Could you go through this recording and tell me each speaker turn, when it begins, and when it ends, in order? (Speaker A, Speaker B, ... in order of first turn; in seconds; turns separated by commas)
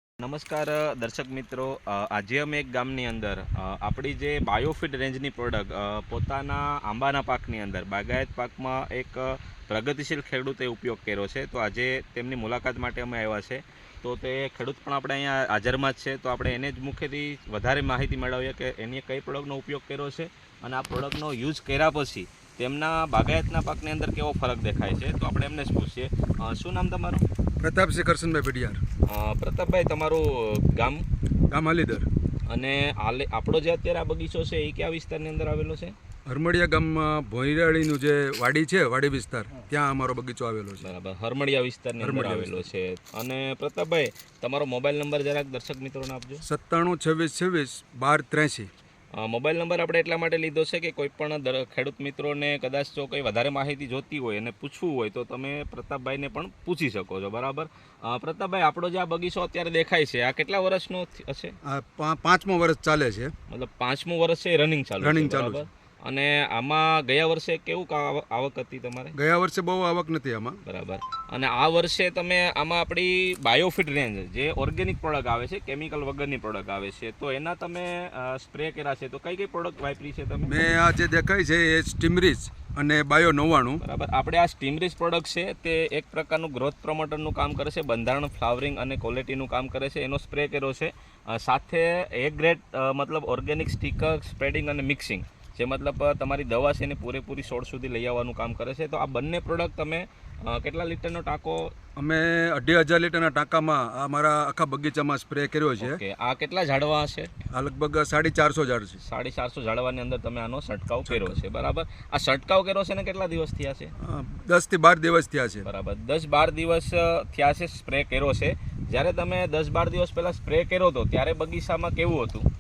Speaker A: 0.2-27.2, Speaker B: 27.6-28.8, Speaker A: 29.1-31.1, Speaker B: 31.5-32.1, Speaker A: 32.5-36.0, Speaker B: 36.3-40.9, Speaker A: 40.8-46.4, Speaker B: 42.0-42.6, Speaker B: 46.4-48.7, Speaker A: 49.2-61.5, Speaker B: 61.7-63.3, Speaker A: 63.5-69.2, Speaker B: 65.0-65.6, Speaker B: 69.2-70.6, Speaker A: 70.7-80.7, Speaker B: 80.5-83.8, Speaker A: 83.8-101.7, Speaker B: 102.0-106.0, Speaker A: 105.8-107.3, Speaker B: 107.5-109.0, Speaker A: 109.0-113.9, Speaker B: 111.1-111.4, Speaker B: 114.0-115.7, Speaker A: 115.7-122.5